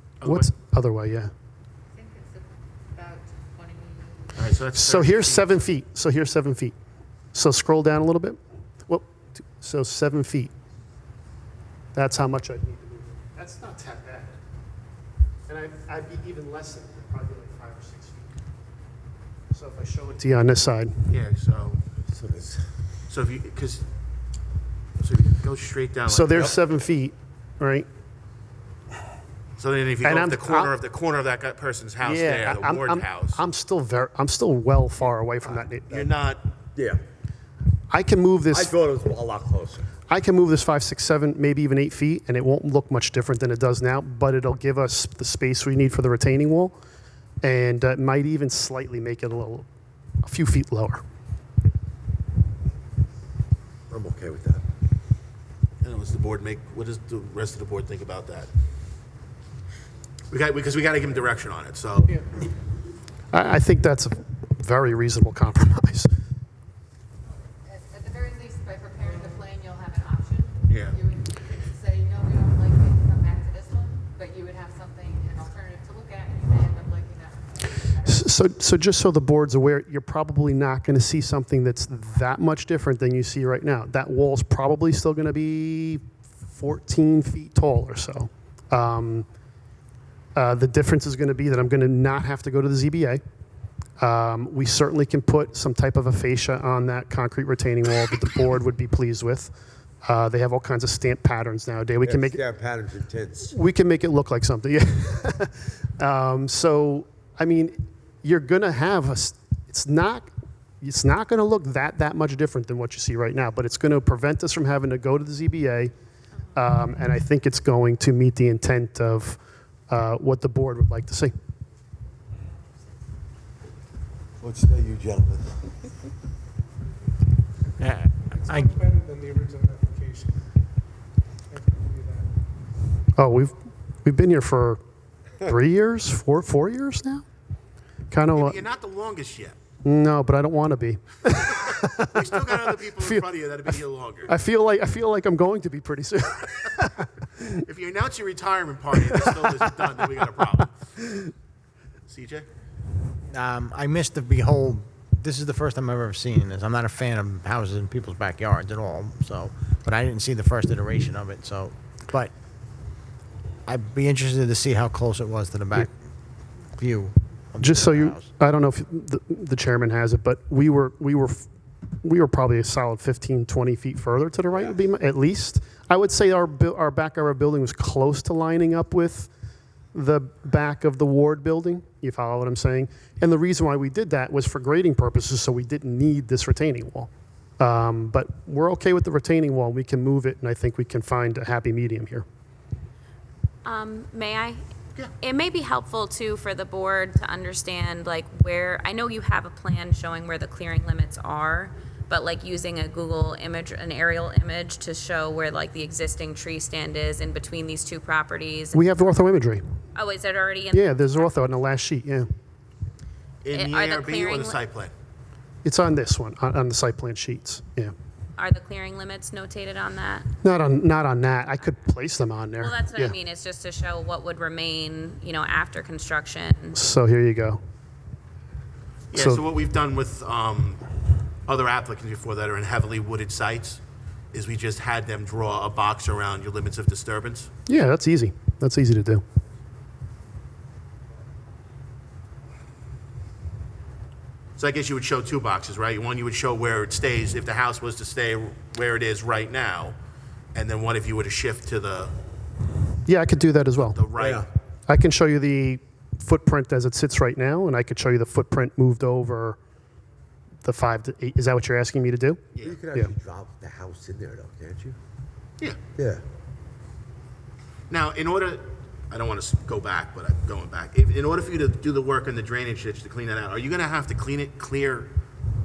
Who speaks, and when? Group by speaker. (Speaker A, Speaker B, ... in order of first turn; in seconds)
Speaker A: 0.2-0.5, 4.3-5.5, 21.1-21.8, 23.1-23.9, 25.0-26.6, 29.6-33.4, 35.9-36.5, 55.8-58.5, 60.3-62.1, 70.7-71.0, 138.3-139.6, 142.1-144.3, 147.7-150.8, 152.1-152.5, 213.4-214.9, 229.1-230.8, 231.5-233.8, 234.3-237.5, 244.6-250.0, 250.5-252.1, 253.9-254.5, 267.9-275.1
Speaker B: 0.2-1.3, 4.8-6.8, 7.3-10.5, 11.9-14.4, 15.5-18.4, 19.5-21.1, 26.1-27.9, 30.0-30.7, 32.0-36.1, 37.9-38.7, 40.1-46.8, 47.4-49.7, 50.2-51.0, 63.3-66.1, 78.1-86.0, 86.5-89.3, 90.3-93.2, 94.0-102.4, 103.5-110.3, 110.8-115.9, 116.5-121.3, 133.2-134.8, 135.4-137.2, 138.1-138.6, 139.8-143.3, 144.3-147.6, 149.0-149.6, 167.6-171.5, 172.0-179.3, 179.9-192.2, 208.7-209.6, 210.7-212.3, 215.6-217.9, 220.4-223.2, 226.7-227.6, 229.1-229.4, 237.7-239.2, 253.1-254.0, 254.9-259.6, 260.6-263.1
Speaker C: 1.9-4.5, 67.7-78.4
Speaker D: 22.1-22.6, 36.8-37.0, 38.5-39.9, 53.9-54.6, 102.0-103.5, 124.4-125.7, 254.2-254.5, 262.6-265.0, 266.0-266.2
Speaker E: 127.8-128.8, 153.3-162.3, 163.7-165.9, 166.8-168.3
Speaker F: 128.3-130.4, 131.5-132.3
Speaker G: 193.7-194.6, 195.2-208.8, 209.9-211.1, 213.5-214.6, 218.4-220.3, 222.6-226.8